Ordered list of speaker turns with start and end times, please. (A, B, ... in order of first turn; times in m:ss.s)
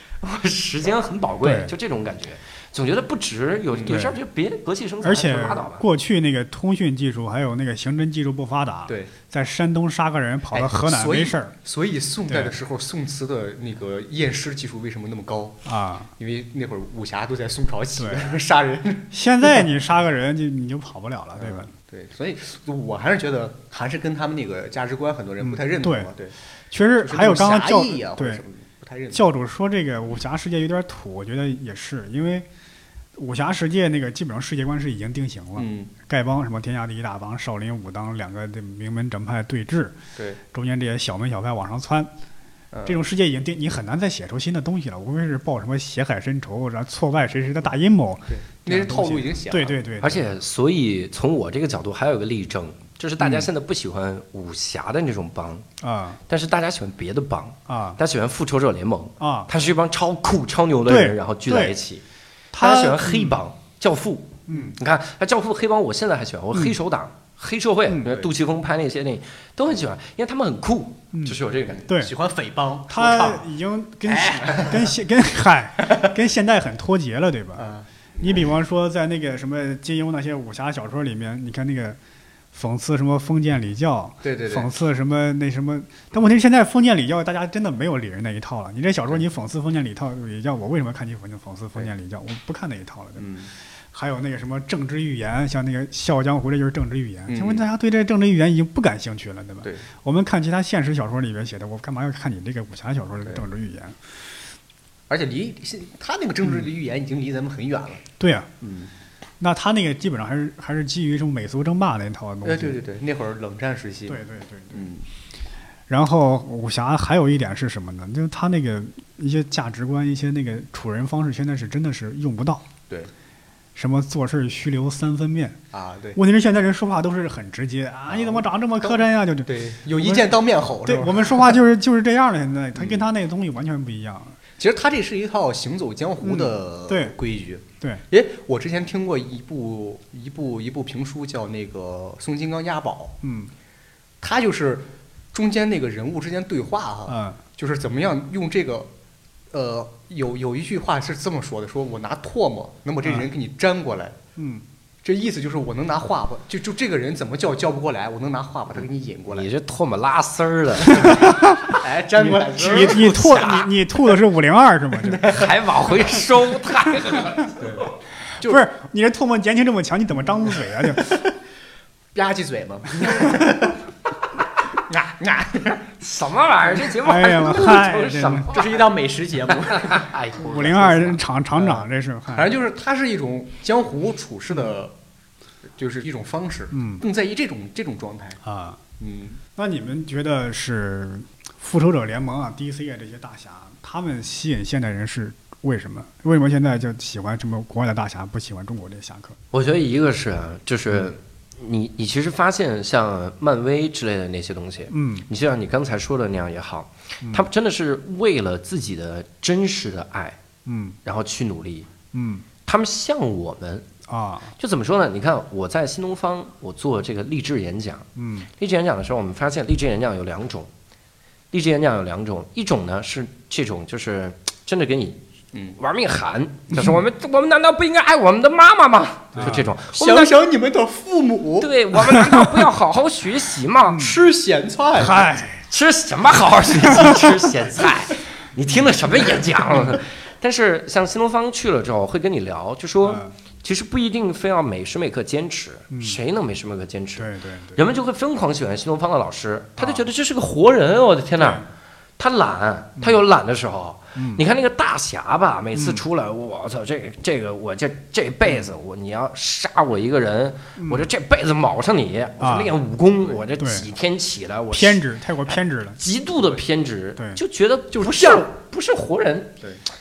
0:00.2-0:05.8 A
0:01.4-0:01.7 B
0:03.9-0:04.2 B
0:05.0-0:11.5 B
0:08.9-0:09.1 C
0:10.5-0:15.6 C
0:12.3-0:12.6 B
0:15.6-0:16.1 B
0:16.2-0:19.1 C
0:18.0-0:18.3 B
0:19.1-0:21.7 B
0:21.4-0:26.3 C
0:25.4-0:26.1 B
0:26.7-0:28.4 B
0:27.0-0:29.3 C
0:29.1-0:32.5 B
0:33.2-0:40.0 B
0:35.6-0:35.9 C
0:40.5-0:42.1 B
0:42.7-0:43.0 C
0:42.9-0:50.3 B
0:48.3-0:49.8 C
0:50.0-0:55.7 A
0:53.2-0:53.5 B
0:55.8-0:56.2 B
0:56.3-1:02.0 A
0:57.7-0:58.0 B
0:59.2-0:59.5 B
1:00.9-1:01.8 B
1:02.5-1:03.4 B
1:02.6-1:11.8 A
1:04.5-1:04.8 B
1:08.0-1:08.3 C
1:11.1-1:12.1 B
1:11.7-1:13.4 C
1:12.9-1:17.6 B
1:14.3-1:14.8 C
1:17.6-1:18.4 C
1:18.2-1:22.0 B
1:22.5-1:33.3 B
1:24.2-1:24.7 C
1:33.2-1:33.5 C
1:33.9-1:44.0 B
1:37.3-1:37.6 C
1:45.1-1:48.0 C
1:48.2-1:48.5 B
1:48.6-1:48.9 C
1:49.4-1:52.8 B
1:52.4-1:54.2 C
1:54.1-1:54.8 B
1:54.7-1:55.0 C
1:55.9-2:02.7 B
2:03.8-2:05.6 B
2:05.7-2:06.2 C
2:06.2-2:14.4 B
2:08.1-2:11.6 C
2:12.8-2:13.0 C
2:14.6-2:23.2 C
2:16.2-2:17.2 B
2:23.2-2:23.5 B
2:24.2-2:28.9 C
2:27.1-2:27.4 B
2:29.5-2:34.2 C
2:34.4-2:34.6 B
2:35.0-2:39.5 C
2:39.3-2:41.4 A
2:40.9-2:41.5 B
2:41.7-2:43.2 C
2:42.2-2:45.3 B
2:42.7-2:43.7 A
2:45.0-2:45.5 C
2:45.2-2:47.7 A
2:47.6-2:47.9 C
2:48.4-2:48.6 C
2:48.4-2:51.2 B
2:51.0-2:51.2 C
2:52.2-2:53.8 C
2:54.8-2:55.8 C
2:56.0-2:58.9 A
2:57.0-2:58.5 B
2:58.5-3:00.1 C
2:59.6-3:01.2 A
3:00.4-3:02.5 B
3:02.3-3:04.9 C
3:05.8-3:08.4 C
3:06.7-3:07.0 B
3:08.4-3:08.8 B
3:09.0-3:09.4 C
3:09.6-3:19.4 B
3:19.5-3:30.4 A
3:24.9-3:25.2 B
3:27.2-3:27.5 B
3:30.7-3:31.0 B
3:31.0-3:31.9 A
3:32.1-3:32.4 B
3:32.7-3:33.9 A
3:34.1-3:34.5 B
3:34.6-3:38.1 A
3:38.2-3:38.5 B
3:38.6-3:40.7 A
3:41.5-3:45.2 A
3:45.8-3:50.3 A
3:49.4-3:49.7 B
3:49.4-3:51.7 C
3:51.6-3:54.1 A
3:52.2-3:52.5 B
3:53.9-3:54.2 B
3:54.0-3:55.3 C
3:55.0-3:55.6 B
3:55.7-4:11.6 A
4:03.0-4:03.3 B
4:05.9-4:06.2 B
4:07.2-4:07.8 B
4:09.8-4:10.1 B
4:11.4-4:11.6 B
4:12.2-4:25.0 A
4:14.2-4:14.4 B
4:15.7-4:16.0 B
4:20.8-4:21.1 B
4:22.4-4:22.8 B
4:23.6-4:23.9 B
4:24.7-4:26.0 B
4:26.0-4:29.6 A
4:27.9-4:28.5 C